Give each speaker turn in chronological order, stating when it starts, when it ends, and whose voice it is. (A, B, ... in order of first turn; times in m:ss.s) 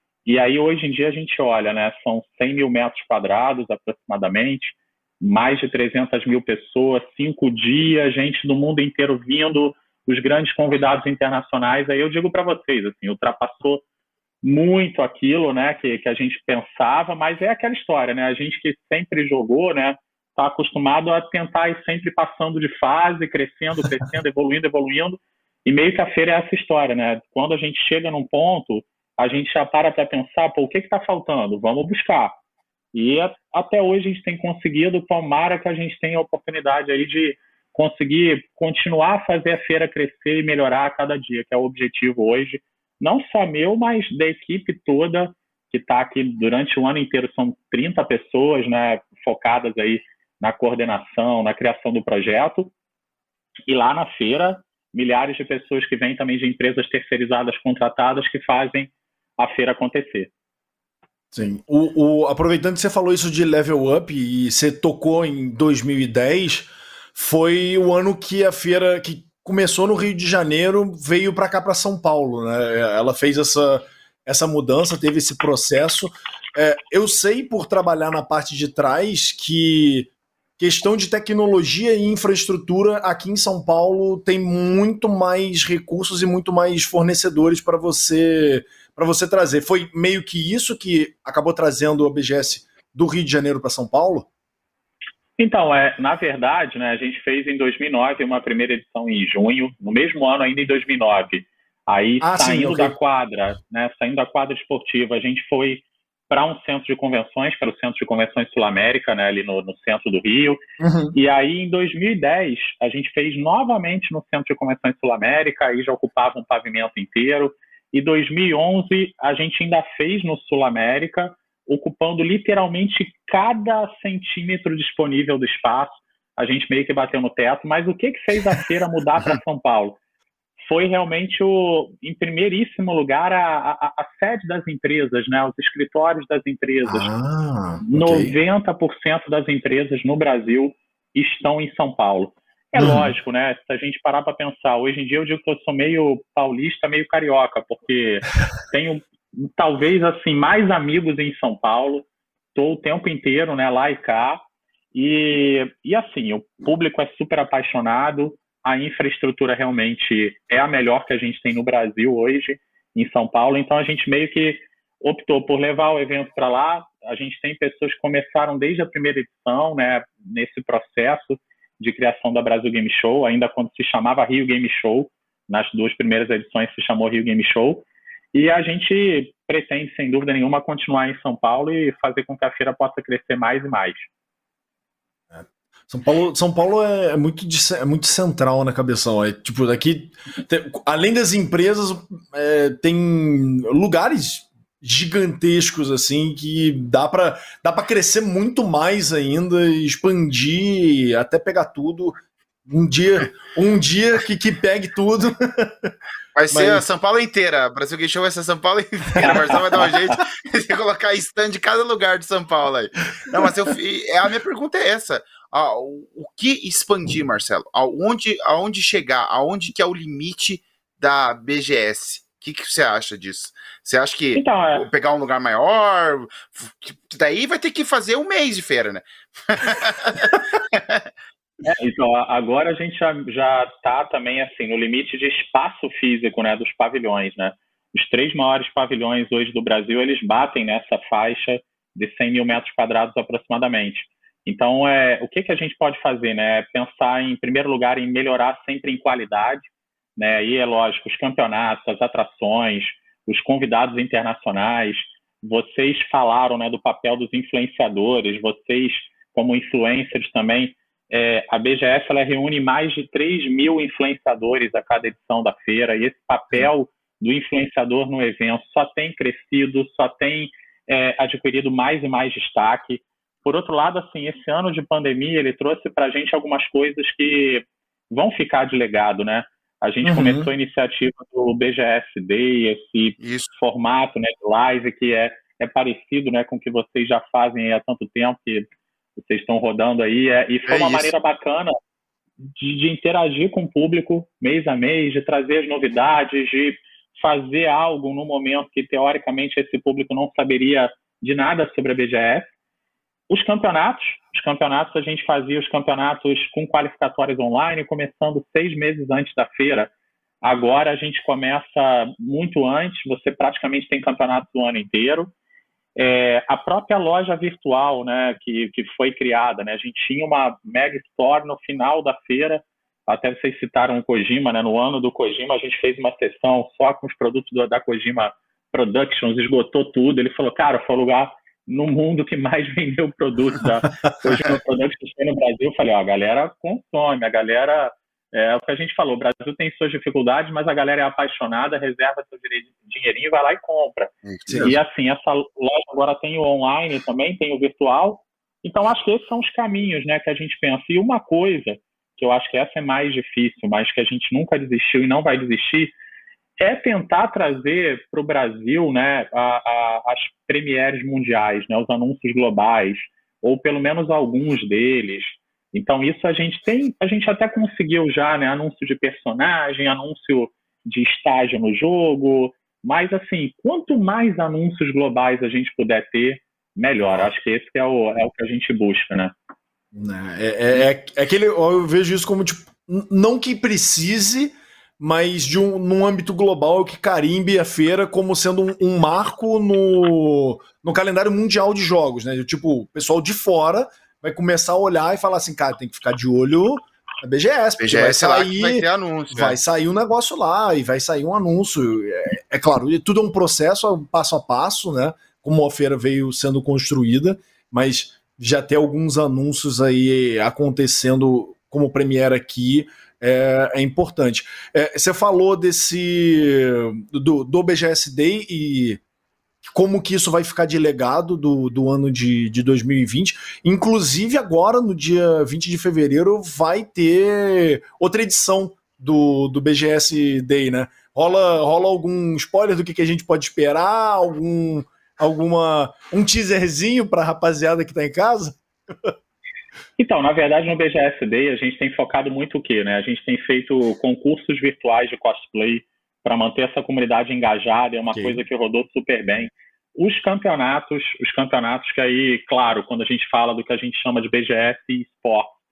0:00.2-0:13.8 A
0:14.4-0:32.4 A
0:32.9-0:52.7 A
0:53.7-1:00.3 A
1:01.3-1:34.3 B
1:35.4-1:50.6 A
1:42.2-1:43.0 B
1:50.8-1:51.2 B
1:51.1-2:10.0 A
2:10.6-2:17.1 A
2:16.9-2:18.4 B
2:17.8-2:34.4 A
2:22.8-2:23.1 B
2:34.9-3:04.1 A
3:05.3-3:22.2 B
3:22.7-3:26.0 B
3:26.4-3:51.0 C
3:26.5-3:26.8 B
3:44.4-3:44.8 A
3:51.6-4:48.7 A
4:40.0-4:40.5 B
4:43.2-4:43.5 C
4:49.2-4:51.7 A
4:50.7-4:51.1 C
4:52.6-5:02.5 A
5:03.3-5:09.9 A
5:10.4-5:15.3 A
5:16.0-5:55.9 A
5:44.2-5:44.8 C
5:44.5-5:44.8 B
5:56.6-6:19.4 A
6:17.0-6:17.3 B
6:19.9-6:59.0 B
6:37.8-6:39.6 C
6:59.7-7:19.1 B
7:20.0-7:35.6 A
7:28.1-7:28.4 B